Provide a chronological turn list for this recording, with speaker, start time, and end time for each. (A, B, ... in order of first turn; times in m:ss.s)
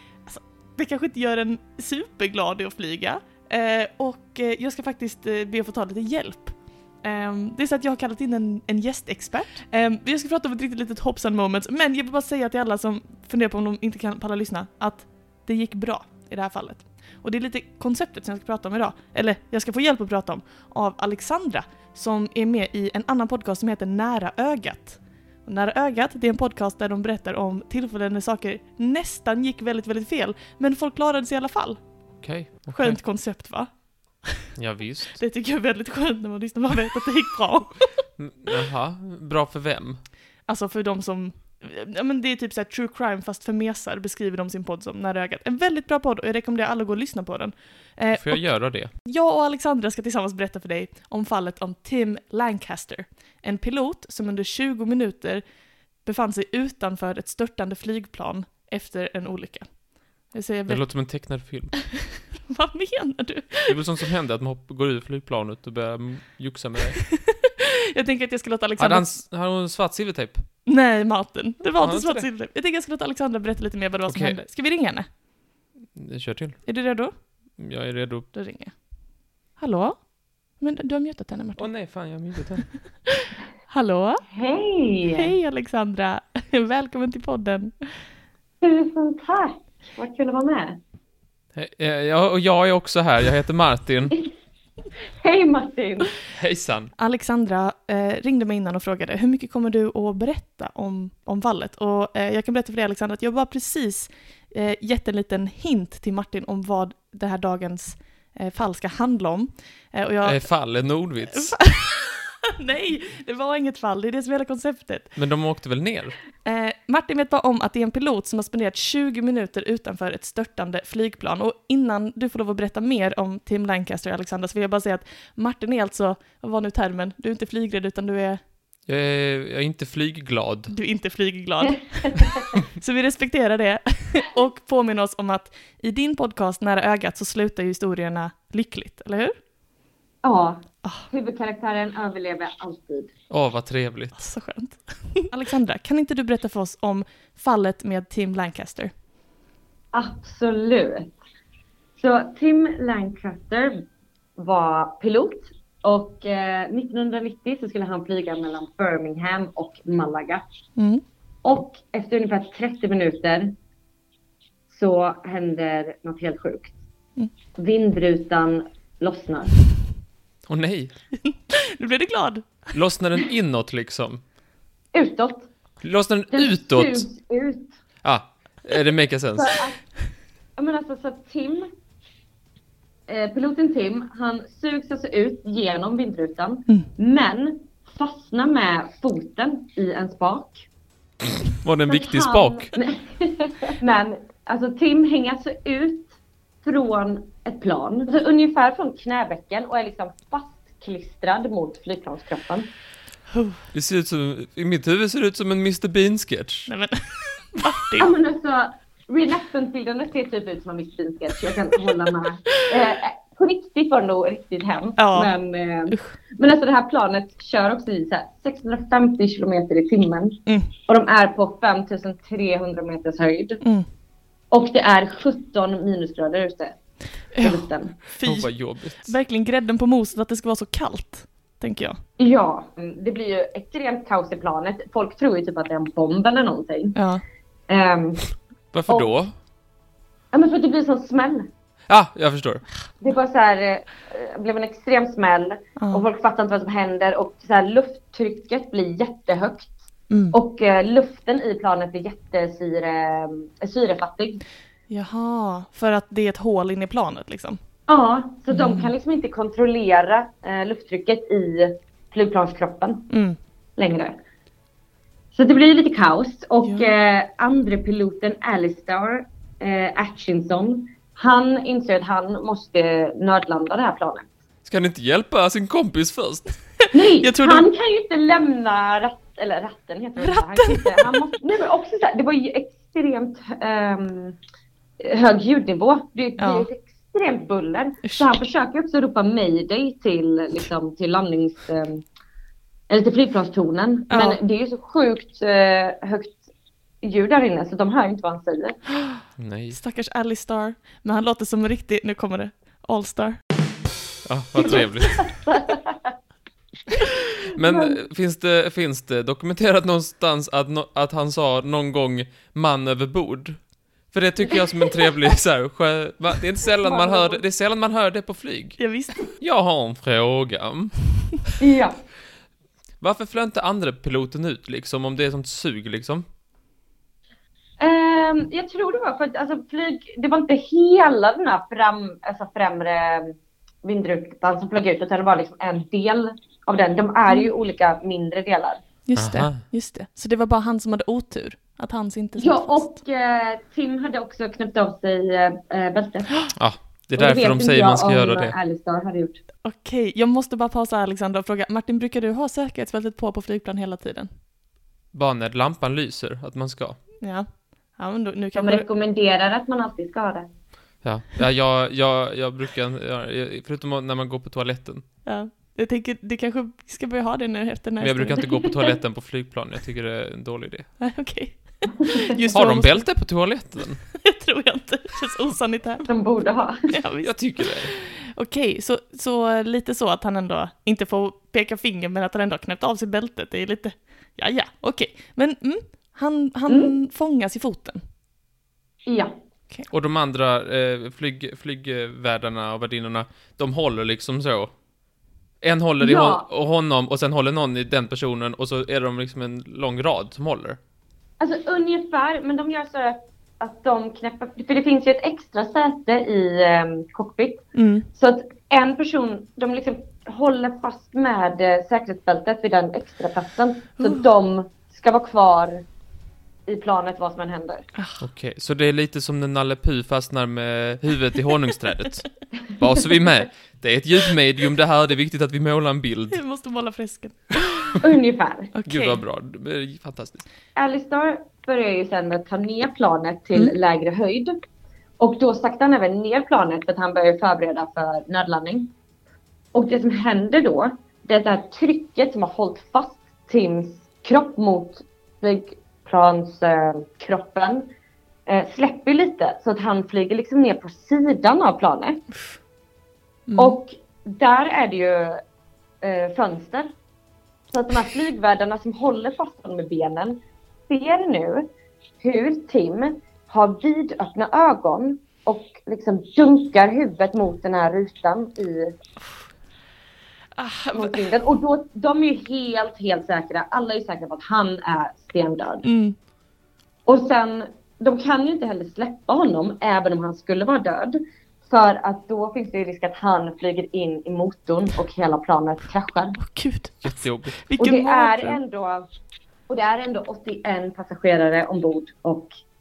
0:00.3-0:31.8 A
0:32.2-0:33.0 B
0:32.7-0:34.5 A
0:34.6-0:35.2 B
0:35.2-0:38.0 A
0:38.2-0:40.0 B
0:40.5-0:55.4 A
0:48.1-0:48.9 B
0:56.0-1:00.9 A
1:00.7-1:01.8 B
1:02.1-1:03.8 A
1:03.7-1:07.0 B
1:07.0-1:09.2 A
1:08.8-1:10.4 B
1:10.7-1:15.1 A
1:11.6-1:12.3 B
1:14.1-1:14.4 B
1:16.0-1:16.6 B
1:16.7-1:17.1 A
1:17.6-1:18.3 B
1:18.3-1:18.8 A
1:19.6-1:20.0 A
1:20.6-1:21.7 A
1:21.6-1:22.7 B
1:23.1-1:24.2 A
1:24.3-1:25.3 C
1:25.1-1:28.0 A
1:28.6-1:30.8 C
1:31.6-1:34.2 B
1:35.2-1:36.1 C
1:36.3-1:36.9 B
1:37.0-1:50.5 A
1:50.2-1:51.6 B
1:51.3-1:55.1 A
1:55.2-1:56.2 B
1:56.4-2:08.4 A
2:08.9-2:10.7 B
2:10.7-2:19.4 A
2:12.1-2:12.5 C
2:20.2-2:23.1 C
2:23.3-2:24.2 B
2:24.2-2:28.9 A
2:29.9-2:31.2 C
2:32.0-2:33.8 C
2:34.4-2:40.4 C
2:40.8-2:41.0 A
2:41.4-2:43.6 C
2:44.7-2:46.7 C
2:47.6-2:49.6 C
2:50.5-2:50.9 B
2:51.2-2:52.7 A
2:52.7-2:54.2 B
2:54.9-2:55.5 C
2:55.8-2:57.1 B
2:56.3-2:57.8 C
2:58.0-2:59.6 B
2:59.4-2:59.8 C
3:00.6-3:01.7 C
3:03.1-3:10.7 C
3:11.6-3:12.7 B
3:11.9-3:22.7 C
3:23.3-3:23.6 A
3:23.7-3:26.7 B
3:26.7-3:28.1 A
3:28.0-3:43.6 C
3:35.0-3:35.3 A
3:40.5-3:40.7 A
3:43.6-3:43.9 A
3:44.5-3:46.8 C
3:47.4-3:48.5 A
3:47.4-3:48.0 C
3:48.2-3:49.1 B
3:49.0-3:52.0 A
3:52.2-3:57.0 C
3:57.0-3:57.2 A
3:57.7-3:58.3 C
3:58.7-3:59.3 B
4:00.3-4:01.5 C
4:01.9-4:02.6 B
4:03.0-4:09.7 C
4:05.8-4:06.0 A
4:10.1-4:10.4 A
4:10.3-4:14.4 C
4:14.9-4:17.6 A
4:17.9-4:23.1 C
4:18.5-4:18.9 A
4:23.1-4:23.4 A
4:23.8-4:24.2 C
4:25.3-4:34.3 C
4:26.6-4:26.9 A
4:34.6-4:36.6 B
4:36.8-4:37.7 A
4:36.9-4:44.4 C
4:40.2-4:41.2 A
4:45.0-4:52.0 C
4:46.4-4:46.7 A
4:48.0-4:48.3 A
4:52.9-4:56.4 C
4:54.1-4:54.4 A
4:57.0-4:58.8 C
4:59.4-4:59.8 B
4:59.7-5:03.4 A
5:04.2-5:05.3 B
5:04.6-5:06.1 C
5:07.5-5:08.0 C
5:07.5-5:18.8 B
5:14.6-5:15.1 C
5:16.8-5:17.4 C
5:18.8-5:19.2 A
5:19.4-5:21.5 B
5:21.6-5:22.0 C
5:23.0-5:26.2 B
5:27.8-5:38.8 C
5:39.1-5:42.9 A
5:39.2-5:39.6 B
5:42.4-5:46.5 C
5:46.6-5:48.6 B
5:47.2-5:49.4 C
5:49.6-5:54.3 A
5:55.1-5:57.0 B
5:57.2-5:58.9 A
5:58.6-6:00.5 C
6:01.0-6:05.0 B
6:05.2-6:08.4 A
6:08.0-6:10.9 B
6:11.0-6:13.1 A
6:12.5-6:14.0 B
6:14.2-6:16.1 A
6:16.1-6:16.9 C
6:16.9-6:28.0 A
6:17.2-6:17.9 B
6:26.7-6:26.9 C
6:29.1-6:29.4 C
6:29.9-6:34.7 B
6:35.6-6:40.8 B
6:36.0-6:36.5 C
6:41.4-6:47.6 C
6:47.8-6:48.1 A
6:48.2-6:55.8 C
6:56.7-6:57.9 C
6:58.2-7:06.4 B
7:06.3-7:08.0 A
7:08.0-7:08.7 C
7:08.7-7:09.2 A
7:08.9-7:10.4 B
7:10.8-7:14.6 C
7:15.2-7:18.9 C
7:19.7-7:27.9 C
7:28.5-7:32.2 C
7:33.5-7:33.8 A
7:33.6-7:35.4 C
7:36.0-7:36.9 C
7:37.7-7:41.7 C
7:42.2-7:49.0 C
7:50.6-7:51.2 A
7:50.9-7:55.9 C
7:55.8-7:56.2 A
7:57.1-8:06.4 C
8:06.4-8:08.6 A
8:07.0-8:07.6 B
8:07.8-8:09.1 C
8:09.7-8:12.5 C